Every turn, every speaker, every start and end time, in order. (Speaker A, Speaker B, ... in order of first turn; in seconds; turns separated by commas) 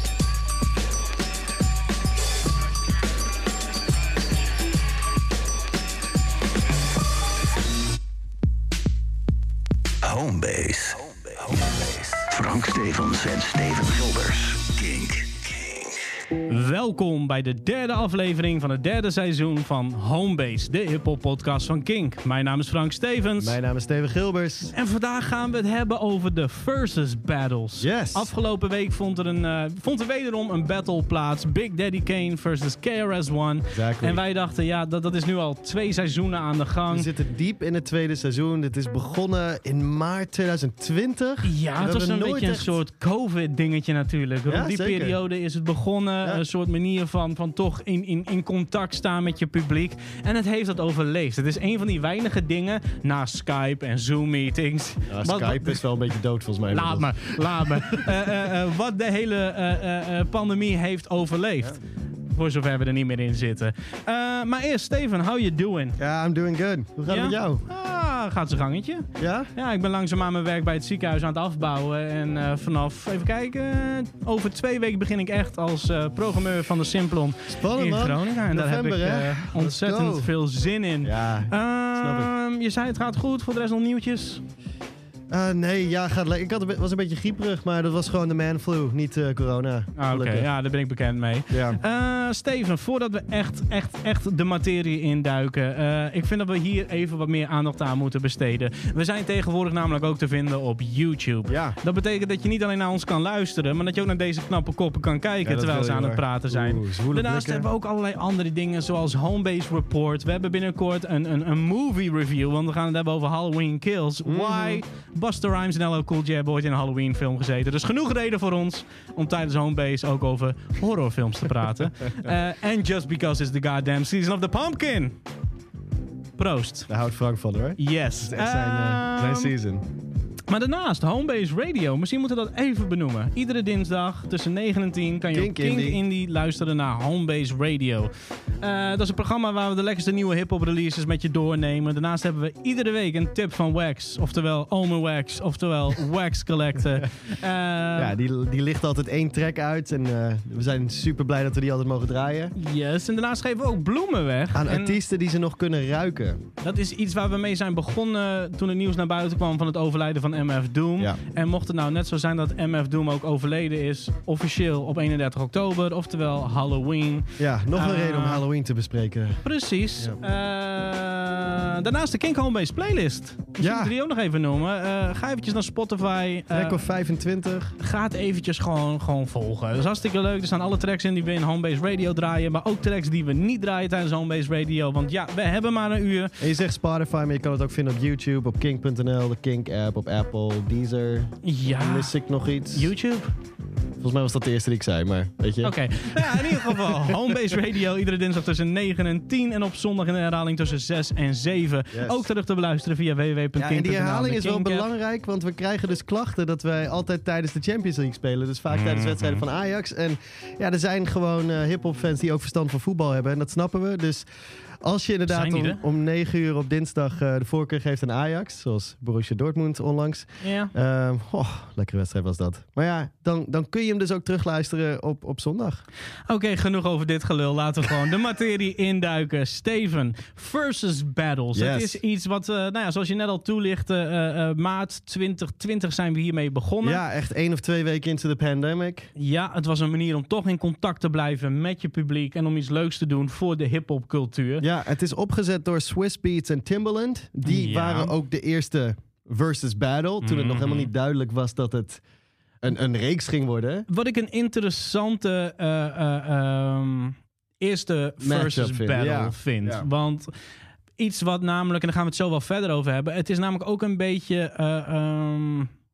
Speaker A: 10.0-16.0, Speaker B: 16.5-23.6, Speaker C: 23.4-24.7, Speaker B: 24.7-37.1, Speaker C: 27.8-28.3, Speaker C: 33.7-34.2, Speaker C: 36.9-42.8, Speaker B: 41.4-55.8, Speaker C: 44.5-45.2, Speaker C: 55.1-58.1, Speaker B: 56.7-66.0, Speaker C: 66.0-67.6, Speaker B: 67.1-84.4, Speaker C: 69.2-69.5, Speaker C: 77.5-80.3, Speaker C: 81.0-82.3, Speaker C: 85.3-90.5, Speaker B: 90.0-125.2, Speaker C: 91.5-91.8, Speaker C: 101.5-101.8, Speaker C: 105.4-107.7, Speaker C: 114.2-114.8, Speaker B: 126.4-126.9, Speaker C: 126.9-129.9, Speaker B: 127.8-129.5, Speaker B: 130.5-148.1, Speaker C: 135.3-136.0, Speaker C: 147.9-152.5, Speaker B: 152.5-155.0, Speaker C: 154.5-156.4, Speaker B: 156.6-168.4, Speaker C: 167.4-169.4, Speaker B: 169.4-176.8, Speaker C: 173.6-173.9, Speaker C: 176.5-177.8, Speaker B: 177.8-186.4, Speaker C: 186.4-192.9, Speaker B: 191.4-192.1, Speaker B: 192.7-193.3, Speaker C: 194.0-197.3, Speaker B: 195.6-204.9, Speaker C: 201.9-202.2, Speaker C: 203.6-214.2, Speaker B: 208.7-209.4, Speaker C: 214.8-225.8, Speaker B: 215.3-215.8, Speaker B: 220.4-220.7, Speaker B: 226.3-237.0, Speaker C: 231.5-232.0, Speaker C: 236.8-239.1, Speaker B: 239.2-244.6, Speaker C: 244.6-252.0, Speaker B: 247.4-248.1, Speaker B: 250.2-250.9, Speaker C: 252.6-253.8, Speaker B: 253.9-260.3, Speaker C: 258.2-259.9, Speaker B: 261.0-265.7